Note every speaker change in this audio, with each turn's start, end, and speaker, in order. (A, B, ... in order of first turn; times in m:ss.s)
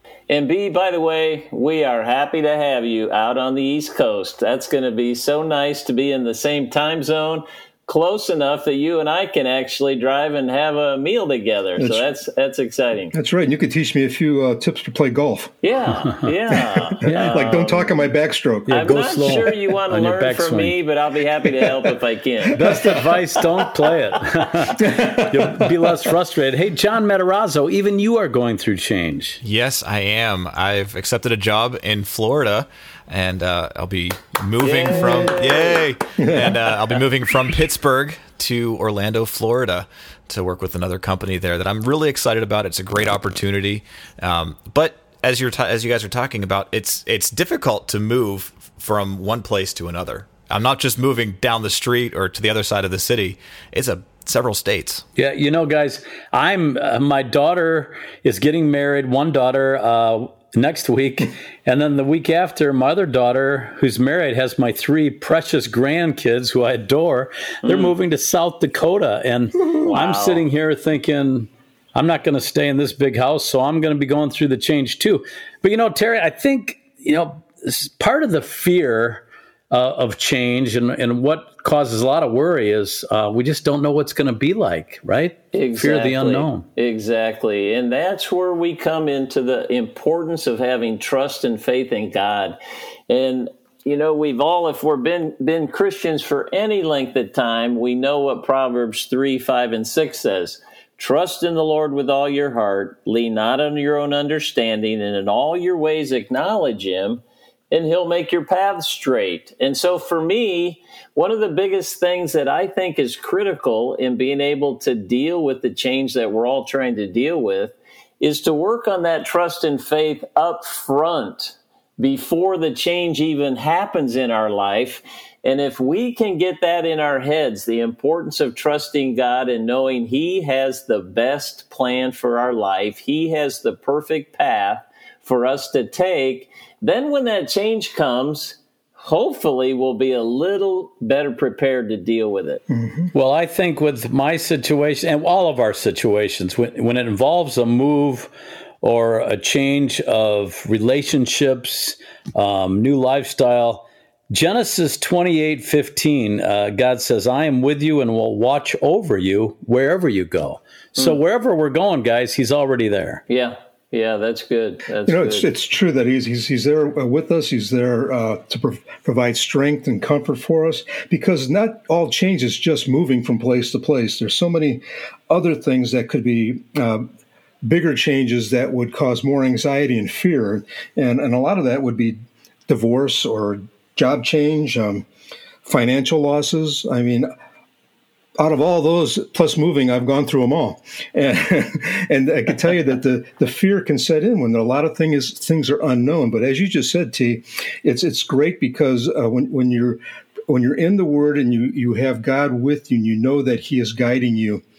0:00.3-0:13.1 A
0:11.8-0:12.1 B
0:13.1-0:15.5 B
0:15.6-0:18.1 A
0:16.5-0:19.4 B
0:17.0-0:17.3 C
0:18.7-0:20.8 C
0:18.7-0:23.0 A
0:22.6-0:29.4 C
0:22.6-0:23.0 B
0:24.8-0:26.0 B
0:29.4-0:55.0 D
0:34.6-0:35.9 A
0:34.9-0:35.3 B
0:36.2-0:36.6 B
0:55.2-1:26.7 C
1:07.6-1:08.0 A
1:09.7-1:10.5 A
1:25.5-1:32.6 A
1:33.1-2:22.6 A
2:22.7-2:23.1 B
2:23.1-2:28.3 C
2:28.8-2:43.2 C
2:43.3-2:45.5 A
2:45.1-2:57.1 B
2:57.6-3:05.1 B
3:05.6-3:07.3 B
3:08.4-3:24.6 B